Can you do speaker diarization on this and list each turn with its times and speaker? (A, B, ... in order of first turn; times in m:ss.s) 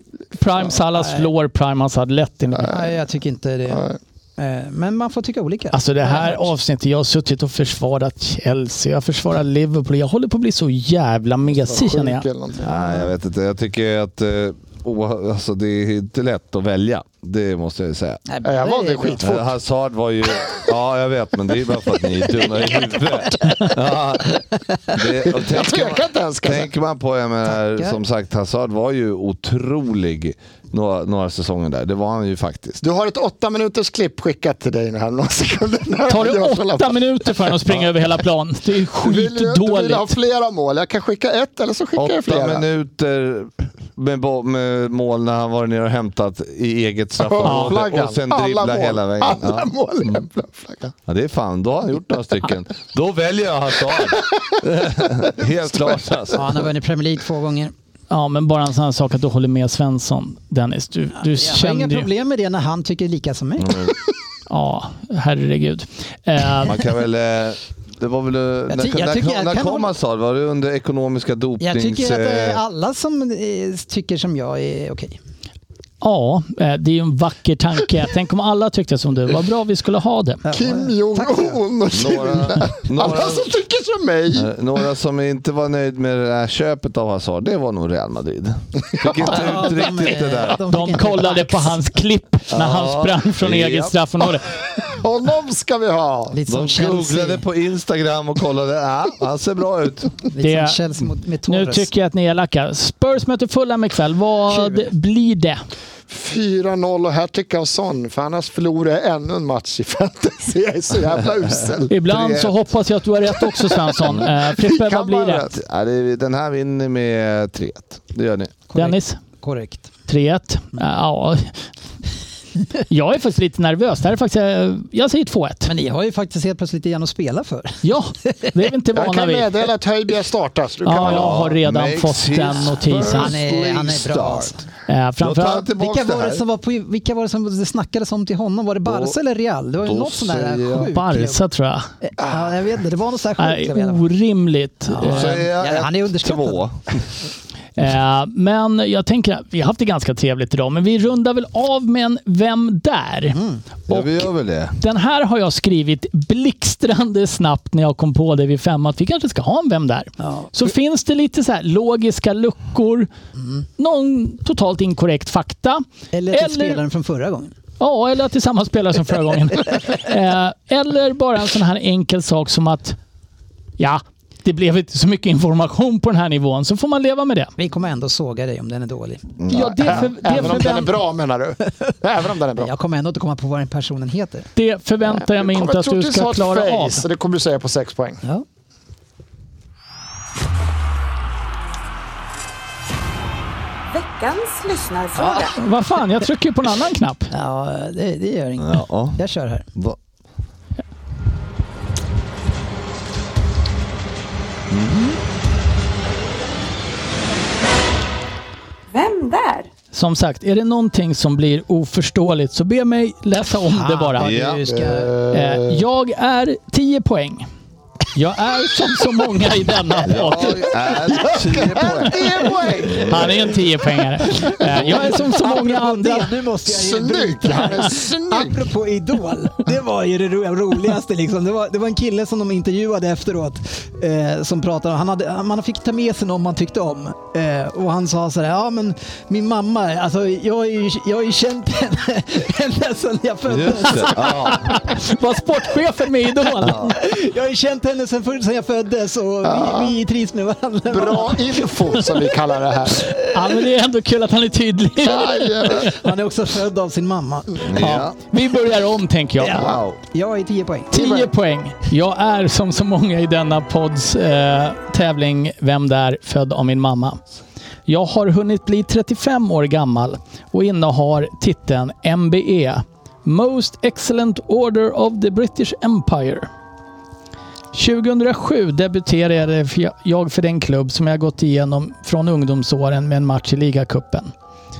0:00.3-0:02.8 A
0:00.9-0:01.3 B
0:02.6-0:06.5 B
0:03.7-0:04.0 C
0:05.7-0:12.2 A
0:11.5-0:13.0 C
0:12.6-0:18.2 D
0:18.3-0:19.2 B
0:18.4-0:19.5 C
0:19.2-0:32.8 D
0:25.3-0:26.7 C
0:27.6-0:28.0 B
0:32.8-0:37.5 C
0:36.1-0:40.1 A
0:39.0-0:42.6 C
0:42.0-0:50.2 D
0:47.2-0:50.9 C
0:47.4-0:47.8 A
0:51.1-0:56.4 D
0:56.3-0:57.7 B
0:58.1-1:02.1 A
1:01.2-1:03.8 B
1:03.6-1:03.9 D
1:04.5-1:06.8 A
1:06.6-1:12.6 D
1:08.7-1:09.9 B
1:11.6-1:15.2 B
1:16.0-1:20.4 A
1:20.4-1:21.6 B
1:20.5-1:24.5 C
1:21.9-1:23.5 D
1:24.3-1:30.6 D
1:29.2-1:31.8 B
1:30.7-1:34.5 A
1:32.5-1:33.9 D
1:34.8-1:36.4 C
1:36.3-1:37.4 B
1:36.5-1:40.1 D
1:40.3-1:41.9 B
1:40.4-1:40.8 A
1:41.5-1:45.6 A
1:44.5-1:44.9 B
1:46.1-1:51.9 C
1:51.9-1:55.5 A
1:52.0-1:52.6 D
1:54.1-1:55.6 C
1:55.4-1:58.5 D
1:58.7-1:59.9 B
1:58.8-1:59.2 A
2:00.1-2:01.6 A
2:02.8-2:05.7 A
2:05.6-2:08.6 B
2:07.8-2:09.6 A
2:09.0-2:11.4 C
2:10.8-2:13.3 A
2:11.0-2:14.5 D
2:13.1-2:14.6 B
2:14.9-2:15.7 A
2:15.2-2:16.4 D
2:15.7-2:21.4 B
2:18.8-2:19.2 D
2:19.8-2:20.9 D
2:20.8-2:21.9 A
2:22.0-2:24.0 B
2:22.2-2:22.5 C
2:23.4-2:25.4 A
2:24.9-2:27.0 B
2:25.0-2:27.0 D
2:27.8-2:34.2 A
2:33.3-2:33.6 B
2:33.9-2:34.8 D
2:34.8-2:43.1 A
2:40.2-2:40.6 B
2:43.8-2:46.8 A
2:46.1-2:47.5 B
2:47.8-2:53.0 A
2:53.8-2:57.5 A
2:57.6-2:59.4 B
2:59.5-3:00.9 A
2:59.5-3:02.7 C
3:00.3-3:00.8 B
3:02.6-3:04.5 B
3:04.6-3:07.0 A
3:05.1-3:08.2 C
3:13.9-3:15.6 E
3:15.2-3:17.3 A
3:17.3-3:19.7 B
3:18.6-3:19.2 D
3:24.7-3:25.2 D
3:28.9-3:29.7 E
3:29.9-3:34.3 A
3:33.6-3:35.1 B
3:34.2-3:34.6 D
3:34.7-3:35.8 C
3:35.3-3:37.4 A
3:38.1-3:40.6 A
3:40.1-3:43.4 D
3:41.2-3:42.8 B
3:41.5-3:43.5 C
3:43.0-3:46.3 A
3:44.6-4:04.6 B
3:46.6-3:48.6 C
4:03.5-4:04.8 D
4:04.4-4:07.0 A
4:06.6-4:06.9 D
4:06.6-4:12.0 B
4:09.4-4:09.9 C
4:10.9-4:13.1 C
4:13.1-4:15.9 A
4:15.0-4:16.0 C
4:15.7-4:17.8 B
4:17.6-4:18.1 D
4:17.8-4:19.7 A
4:19.4-4:20.9 B
4:19.5-4:20.0 D
4:20.9-4:27.2 A
4:20.9-4:21.3 C
4:27.9-4:36.5 A
4:37.7-4:44.3 A